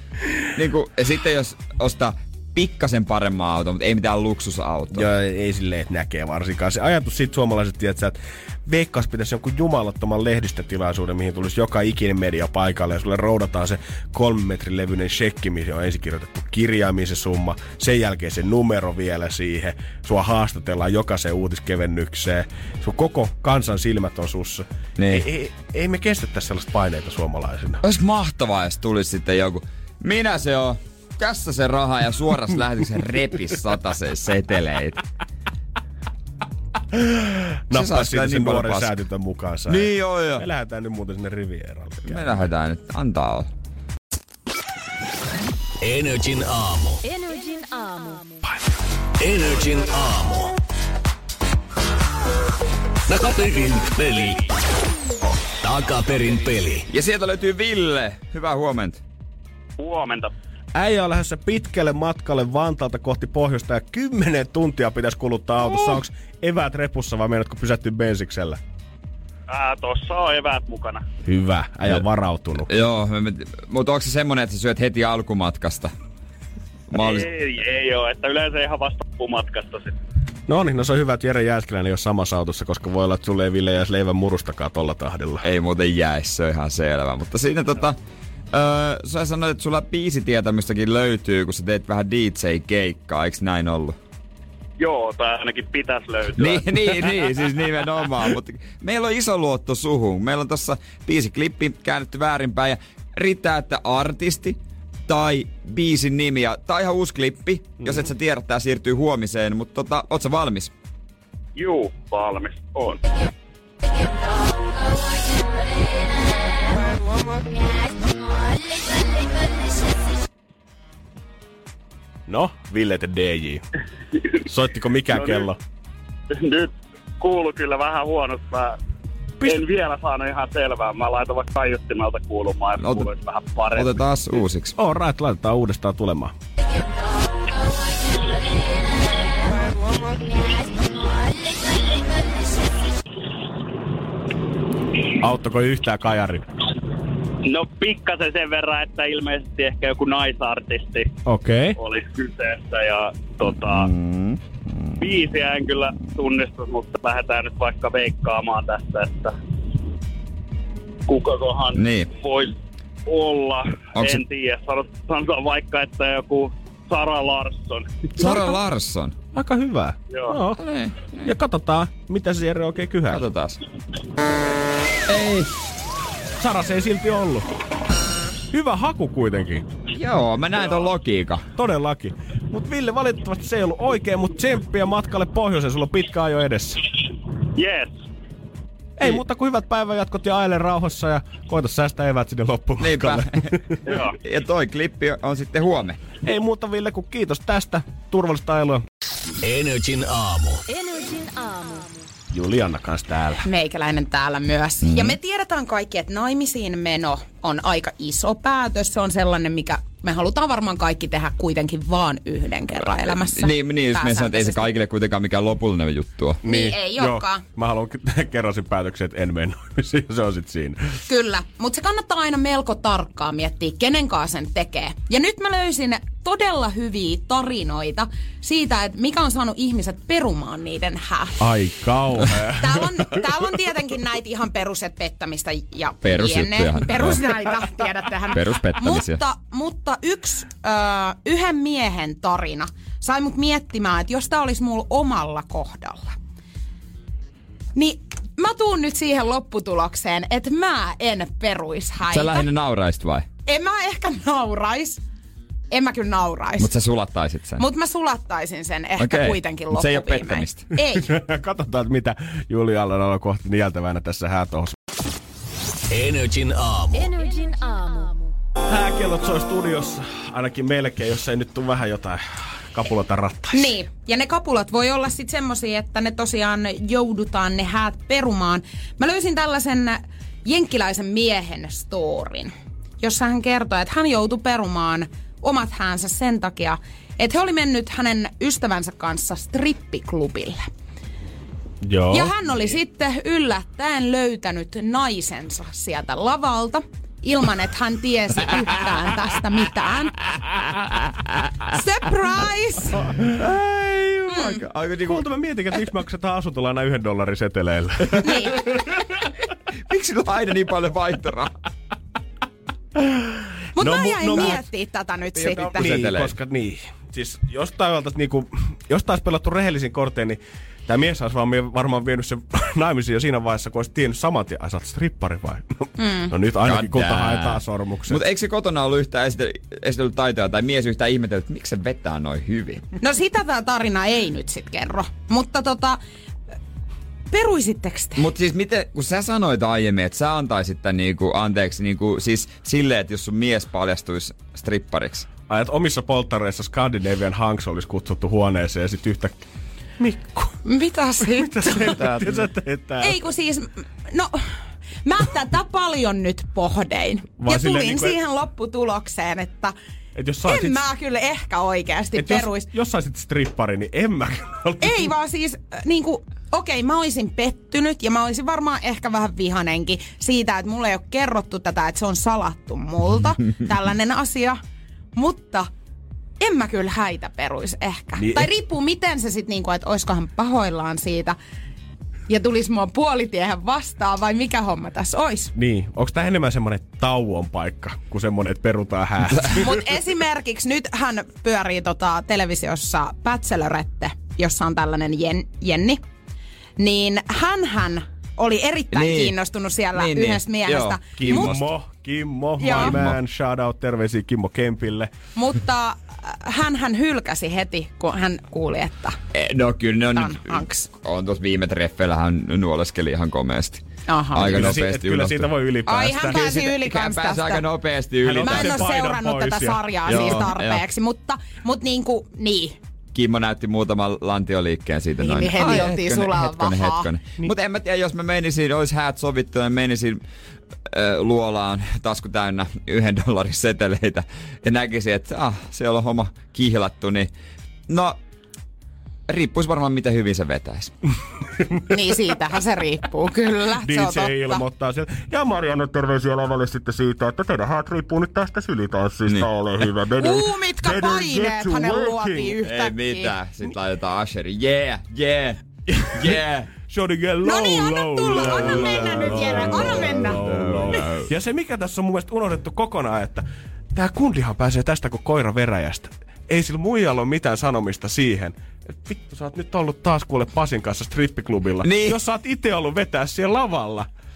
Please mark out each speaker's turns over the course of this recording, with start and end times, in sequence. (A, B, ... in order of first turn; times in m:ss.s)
0:00.5-0:05.1 A
0:04.9-0:27.8 B
0:25.0-0:25.3 A
0:27.8-0:35.0 A
0:36.9-0:42.5 B
0:37.7-0:39.0 A
0:39.7-0:40.4 A
0:42.1-0:43.5 A
0:45.8-0:47.0 C
0:47.0-0:48.5 D
0:49.2-0:50.5 C
0:53.1-0:54.5 C
0:55.6-0:56.9 C
0:56.9-0:59.0 A
0:59.8-1:00.3 E
1:00.8-1:08.6 B
1:09.5-1:11.0 E
1:11.3-1:12.7 B
1:12.6-1:15.9 A
1:16.9-1:17.3 A
1:17.0-1:20.0 E
1:20.5-1:25.4 B
1:25.4-1:28.0 A
1:28.5-1:34.0 A
1:34.8-1:37.2 E
1:36.4-1:50.7 A
1:51.6-1:53.0 E
2:02.3-2:03.6 B
2:04.4-2:05.6 B
2:05.1-2:05.5 E
2:06.3-2:08.8 E
2:09.4-2:09.7 B
2:09.4-2:14.0 E
2:12.8-2:13.1 A
2:13.7-2:14.8 A
2:14.8-2:16.3 B
2:25.2-2:26.4 B
2:27.4-2:31.1 E
2:31.3-2:31.8 B
2:31.8-2:33.9 E
2:33.7-2:34.9 A
2:35.0-2:39.4 E
2:41.1-2:48.2 E
2:41.8-2:42.1 A
2:44.0-2:44.2 A
2:48.2-2:49.2 A
2:49.4-2:50.6 B
2:50.6-2:51.3 A
2:51.2-2:53.2 B
2:53.1-2:53.6 A
2:55.0-2:55.6 A
2:56.4-2:57.5 B
2:58.5-2:59.7 B
2:59.9-3:01.4 A
3:01.6-3:06.8 B
3:07.6-3:07.9 E
3:09.0-3:13.8 B
3:12.8-3:13.5 A
3:13.9-3:14.2 E
3:14.2-3:16.0 A
3:16.2-3:18.8 B
3:19.4-3:20.6 C
3:20.7-3:22.1 D
3:22.3-3:23.4 B
3:23.4-3:34.7 F
3:24.8-3:25.2 A
3:33.1-3:36.4 A
3:36.4-3:41.0 B
3:36.4-3:37.4 F
3:41.1-3:51.5 F
3:51.4-3:53.3 B
3:52.5-4:06.2 F
3:56.0-3:57.2 A
3:58.3-3:59.2 A
4:07.8-4:12.5 F
4:12.1-4:13.3 A
4:13.5-4:15.0 F
4:15.7-4:16.7 F
4:16.6-4:17.6 A
4:17.6-4:21.1 F
4:19.0-4:20.7 A
4:20.8-4:24.8 B
4:25.9-4:27.1 C
4:26.9-4:28.4 D
4:28.7-4:33.8 B
4:33.5-4:50.6 F
4:51.8-4:52.3 B
4:52.1-5:00.2 F
5:01.7-5:03.1 F
5:03.3-5:05.3 A
5:04.3-5:04.6 F
5:05.1-5:08.9 B
5:08.2-5:08.9 F
5:09.9-5:11.5 A
5:13.8-5:16.0 F
5:13.8-5:14.6 B
5:15.4-5:16.3 A
5:15.4-5:28.2 B
5:26.0-5:26.3 F
5:26.6-5:32.9 A
5:33.0-5:36.0 F
5:37.3-5:38.3 F
5:38.2-5:45.3 A
5:45.5-5:49.4 B
5:50.0-5:50.6 B
5:50.6-5:52.3 F
5:51.2-5:53.2 B
5:53.0-5:54.4 F
5:55.0-5:59.8 F
5:57.4-5:58.2 B
6:00.2-6:00.8 B
6:00.4-6:02.7 F
6:02.2-6:05.1 B
6:04.8-6:14.6 F
6:15.2-6:15.7 F
6:16.4-6:21.4 F
6:18.2-6:18.5 B
6:22.3-6:25.5 F
6:25.6-6:29.8 B
6:29.4-6:36.0 F
6:36.8-6:41.6 F
6:38.9-6:39.4 A
6:39.9-6:41.6 A
6:41.2-6:45.1 B
6:42.6-6:43.0 F
6:42.7-6:43.2 A
6:45.4-6:49.2 F
6:49.3-6:55.5 A
6:50.1-6:50.9 F
6:54.1-6:54.6 F
6:54.3-6:56.8 B
6:55.9-6:57.7 F
6:56.4-6:58.8 A
6:58.2-7:00.5 B
6:58.4-7:02.8 F
7:00.1-7:00.9 A
7:03.1-7:10.2 A
7:05.2-7:07.1 F
7:10.9-7:17.3 A
7:17.9-7:18.2 A
7:19.3-7:20.9 A
7:21.9-7:24.6 F
7:23.8-7:32.6 B
7:30.2-7:33.4 F
7:32.6-7:36.7 A
7:36.9-7:54.1 B
7:37.4-7:40.4 F
7:39.2-7:41.3 A
7:51.8-7:52.2 A